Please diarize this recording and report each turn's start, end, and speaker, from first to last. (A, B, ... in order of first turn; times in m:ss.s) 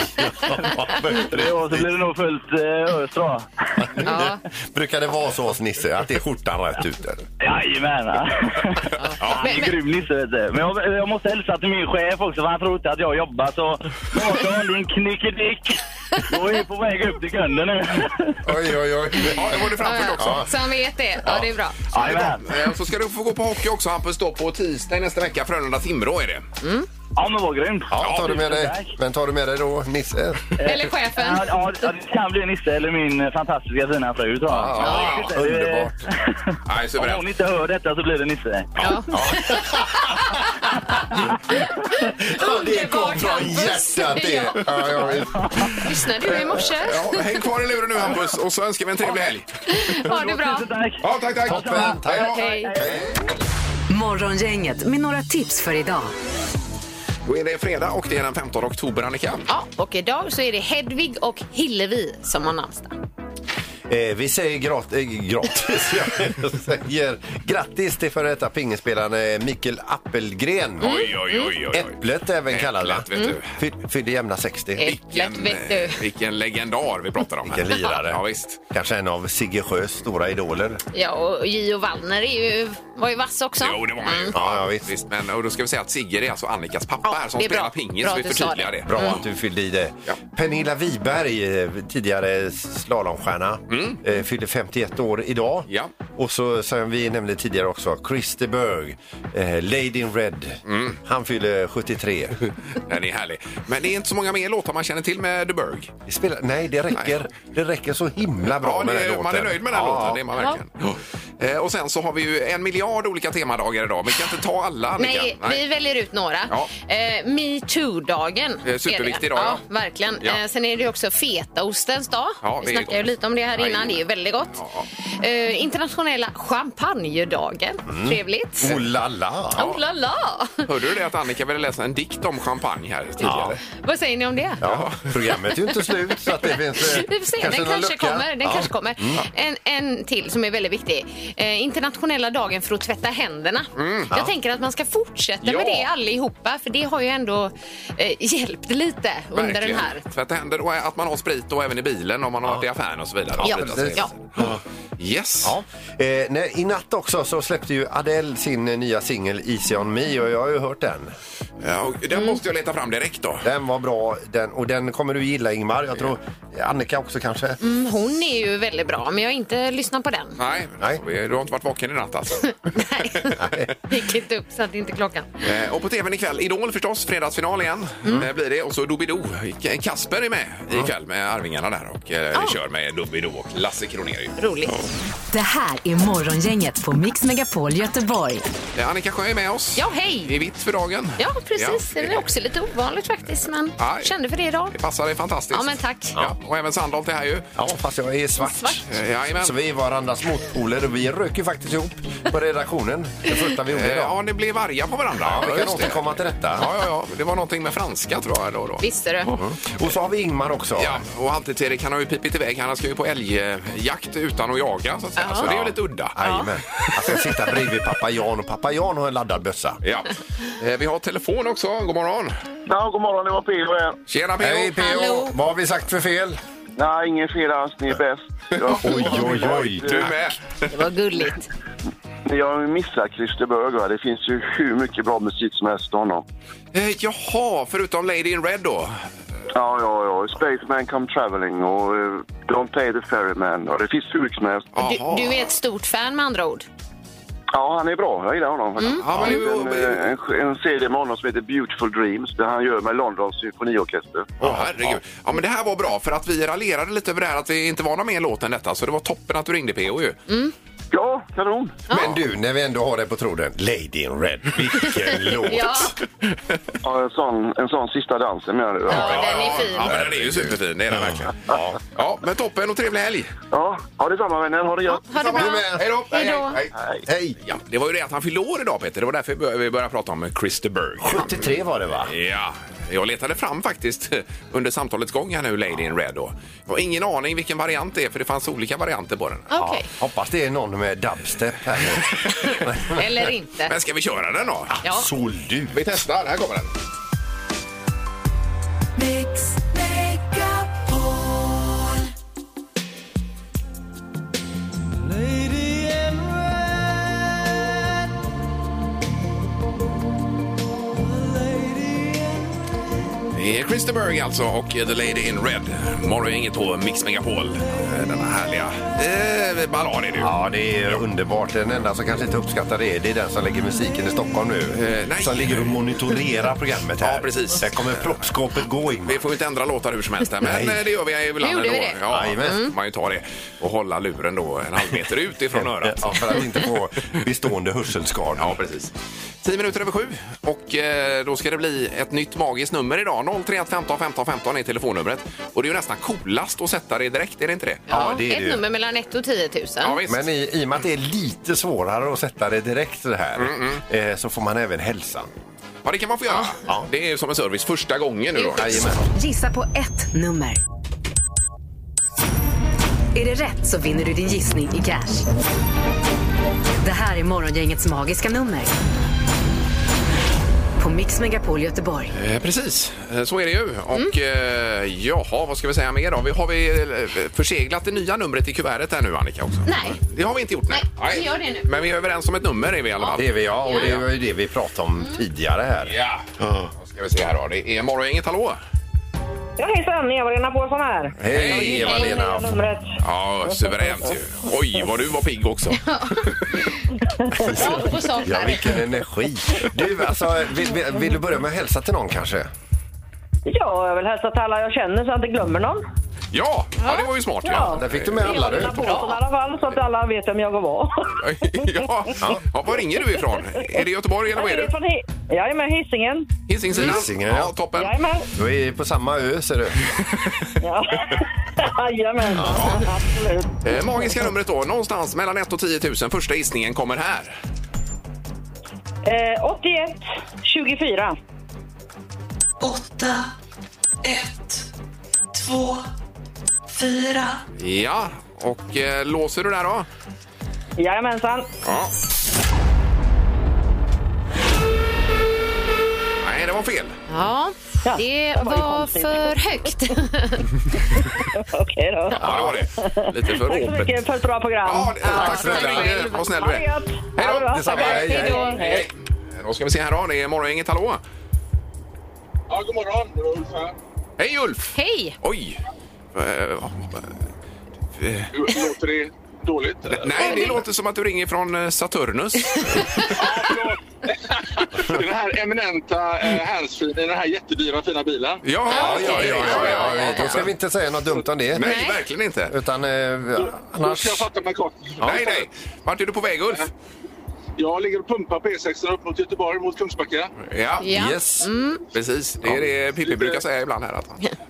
0:00.2-0:01.9 A
0:01.1-0:03.8 B
0:04.0-0:07.2 A
0:04.0-0:04.4 C
0:07.4-0:18.4 B
0:09.0-0:09.8 C
0:18.4-0:20.5 A
0:19.2-0:20.5 D
0:19.8-0:21.8 C
0:21.9-0:22.5 B
0:22.0-0:26.4 D
0:26.6-0:26.9 C
0:27.2-0:28.9 B
0:27.9-0:30.5 A
0:28.0-0:28.3 D
0:30.6-0:38.7 B
0:30.6-0:31.9 C
0:34.5-0:35.9 A
0:34.8-0:35.3 D
0:36.7-0:37.3 D
0:38.8-0:40.3 C
0:39.1-0:40.0 A
0:42.2-0:45.4 A
0:42.4-0:44.7 C
0:45.8-0:47.2 C
0:46.2-0:49.5 D
0:49.7-0:50.7 C
0:50.0-0:53.0 B
0:51.0-0:52.4 D
0:51.5-0:53.1 A
0:52.3-0:52.7 C
0:53.9-0:56.1 E
0:57.2-0:59.5 D
0:59.5-1:03.0 C
1:03.9-1:11.1 A
1:10.8-1:11.5 C
1:10.8-1:13.5 D
1:11.7-1:14.9 A
1:14.8-1:16.0 C
1:14.8-1:18.6 D
1:17.5-1:20.8 A
1:20.9-1:24.4 C
1:23.6-1:29.2 D
1:24.3-1:24.9 A
1:27.1-1:29.2 C
1:28.9-1:42.4 A
1:33.7-1:34.0 D
1:40.7-1:41.0 D
1:42.7-1:45.9 D
1:46.1-1:50.2 A
1:48.5-1:55.6 D
1:55.0-2:08.8 C
1:58.6-1:59.6 D
2:02.4-2:04.0 D
2:04.5-2:04.9 D
2:07.9-2:09.8 A
2:09.5-2:10.7 C
2:10.6-2:13.6 D
2:13.2-2:13.6 A
2:13.7-2:14.6 C
2:14.6-2:19.2 A
2:14.7-2:15.0 D
2:16.8-2:30.0 C
2:23.8-2:24.1 D
2:25.4-2:25.9 D
2:29.3-2:35.6 D
2:33.4-2:34.6 A
2:33.4-2:34.1 C
2:35.4-2:41.1 A
2:41.6-2:43.5 D
2:43.4-2:47.6 A
2:47.6-2:50.4 C
2:50.4-2:52.6 D
2:52.7-2:55.3 C
2:53.4-2:53.7 A
2:55.4-3:04.3 D
3:04.4-3:04.8 C
3:05.3-3:08.4 E
3:08.8-3:12.3 D
3:09.8-3:10.3 C
3:11.2-3:14.8 C
3:13.8-3:14.1 D
3:14.7-3:17.5 D
3:15.5-3:16.2 C
3:17.6-3:18.8 A
3:18.4-3:18.8 C
3:18.9-3:19.6 D
3:19.4-3:24.2 A
3:23.7-3:29.4 D
3:25.2-3:26.7 A
3:28.8-3:29.3 C
3:29.3-3:31.0 A
3:30.8-3:36.2 D
3:35.2-3:35.5 C
3:35.5-3:39.8 A
3:39.8-3:42.3 D
3:42.7-3:44.0 F
3:44.1-3:44.8 D
3:44.4-3:46.4 A
3:44.8-3:45.3 C
3:46.8-3:50.1 F
3:48.7-3:50.7 D
3:48.7-3:50.1 A
3:50.7-3:51.5 C
3:52.3-3:56.2 F
3:56.7-3:59.0 D
3:59.5-4:04.7 F
4:04.7-4:05.5 D
4:04.8-4:06.7 C
4:07.5-4:14.3 F
4:08.8-4:09.4 C
4:09.0-4:10.1 D
4:14.4-4:20.2 D
4:14.4-4:15.0 A
4:20.3-4:20.5 C
4:20.9-4:21.8 F
4:21.9-4:26.0 A
4:21.9-4:22.2 D
4:24.8-4:26.0 C
4:26.8-4:29.2 F
4:28.9-4:30.0 C
4:28.9-4:33.3 D
4:29.1-4:31.8 A
4:33.5-4:35.0 F
4:34.9-4:36.6 C
4:35.1-4:36.7 D
4:35.3-4:35.9 A
4:37.1-4:37.4 A
4:37.4-4:49.5 D
4:41.0-4:42.1 A
4:49.5-4:49.9 C
4:49.5-4:53.2 A
4:52.9-4:53.7 C
4:53.7-4:54.7 D
4:54.7-4:56.0 A
4:55.7-4:56.7 D
5:13.3-5:20.3 D
5:20.2-5:29.2 A
5:24.7-5:25.8 D
5:27.0-5:28.3 D
5:29.1-5:36.4 D
5:30.4-5:30.8 A
5:31.4-5:32.7 C
5:32.1-5:32.7 A
5:35.5-5:38.6 A
5:38.4-5:47.9 D
5:47.9-5:48.6 A
5:47.9-5:50.0 C
5:49.8-5:50.3 D
5:50.1-5:55.3 A
5:53.4-5:53.8 D
5:55.8-5:59.0 D
5:58.4-5:58.6 C
5:58.6-5:59.0 A
5:59.2-6:00.6 E
6:03.1-6:05.3 E
6:06.8-6:08.7 E
6:10.8-6:12.1 E
6:12.1-6:24.0 D
6:19.7-6:20.0 C
6:20.7-6:21.7 C
6:23.0-6:24.0 C
6:23.2-6:25.9 A
6:25.8-6:28.6 D
6:29.6-6:33.0 G
6:31.2-6:32.6 A
6:31.3-6:31.9 D
6:31.8-6:32.2 C
6:33.0-6:36.4 D
6:35.8-6:36.8 C
6:37.4-6:42.5 A
6:37.4-6:38.8 C
6:43.5-6:45.8 G
6:46.3-6:48.4 D
6:46.8-6:47.1 C
6:47.4-6:51.1 G
6:47.6-6:48.9 A
6:48.6-6:49.2 C
6:51.2-6:54.7 D
6:52.2-6:52.4 A
6:54.3-6:56.3 G
6:56.5-6:58.0 D
6:56.8-6:57.5 A
6:57.7-6:58.3 G
6:58.3-6:59.9 A
7:00.6-7:03.5 G
7:02.4-7:02.8 A
7:02.5-7:02.8 D
7:03.6-7:07.4 D
7:09.0-7:11.2 G
7:12.6-7:13.3 H
7:14.0-7:14.7 H
7:15.3-7:15.9 H
7:16.7-7:17.4 H
7:17.6-7:19.9 D
7:20.8-7:21.5 G
7:21.6-7:21.9 D
7:26.2-7:27.0 D
7:27.1-7:30.5 C
7:27.8-7:29.4 G
7:30.9-7:35.7 G
7:32.2-7:34.0 D
7:32.2-7:32.6 A
7:34.6-7:41.0 D
7:35.0-7:36.3 C
7:35.1-7:36.1 A
7:36.3-7:38.9 G
7:37.4-7:38.6 A
7:37.7-7:38.7 C
7:42.5-7:43.8 I
7:44.2-7:45.6 D
7:44.8-7:45.2 C
7:46.1-7:47.1 D
7:48.0-7:48.3 D
7:48.3-7:50.5 I
7:49.9-7:53.1 D
7:50.2-7:50.6 C
7:52.8-7:53.1 C
7:53.1-7:58.4 I
7:58.4-8:00.5 D
7:58.7-8:00.4 C
7:58.7-8:01.8 A
8:01.5-8:02.6 D
8:01.6-8:02.0 C
8:02.5-8:04.3 A
8:03.4-8:05.5 I
8:05.0-8:06.7 D
8:07.6-8:10.3 I
8:10.4-8:10.9 D
8:10.8-8:11.8 C
8:10.8-8:11.5 A
8:11.9-8:14.2 D
8:13.0-8:13.4 I